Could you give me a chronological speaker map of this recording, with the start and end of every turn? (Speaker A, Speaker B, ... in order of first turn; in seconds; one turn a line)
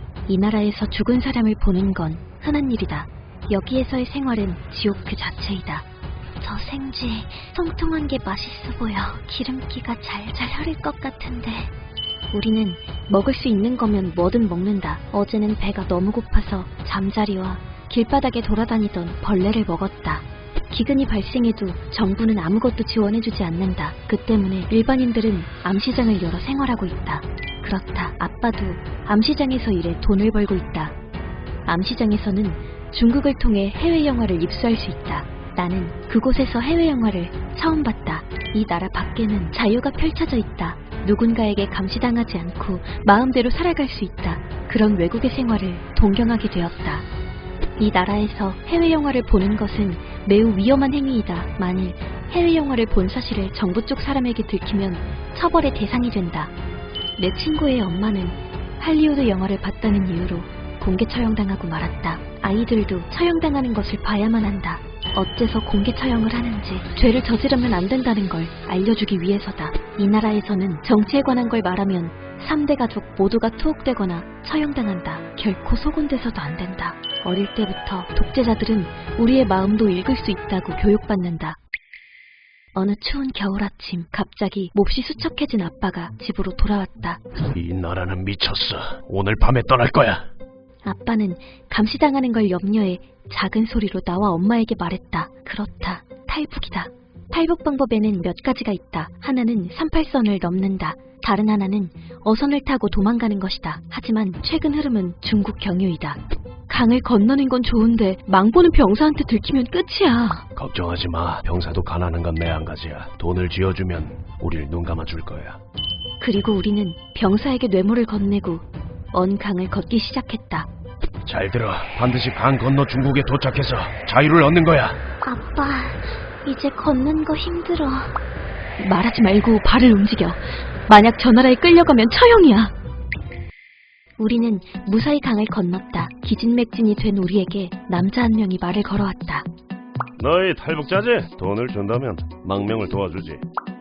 Speaker A: 0.3-5.8
Speaker A: 6.4-11.7
Speaker A: 12.3-31.0
Speaker A: 31.7-47.1
Speaker A: 47.8-56.5
Speaker A: 57.2-81.6
Speaker A: 82.8-87.2
Speaker B: 87.5-90.2
Speaker A: 90.8-110.5
Speaker B: 110.5-115.6
Speaker A: 116.2-120.7
Speaker B: 121.2-125.0
Speaker A: 125.2-128.1
Speaker A: 128.8-132.7
Speaker A: 134.2-139.5
Speaker B: 140.2-143.4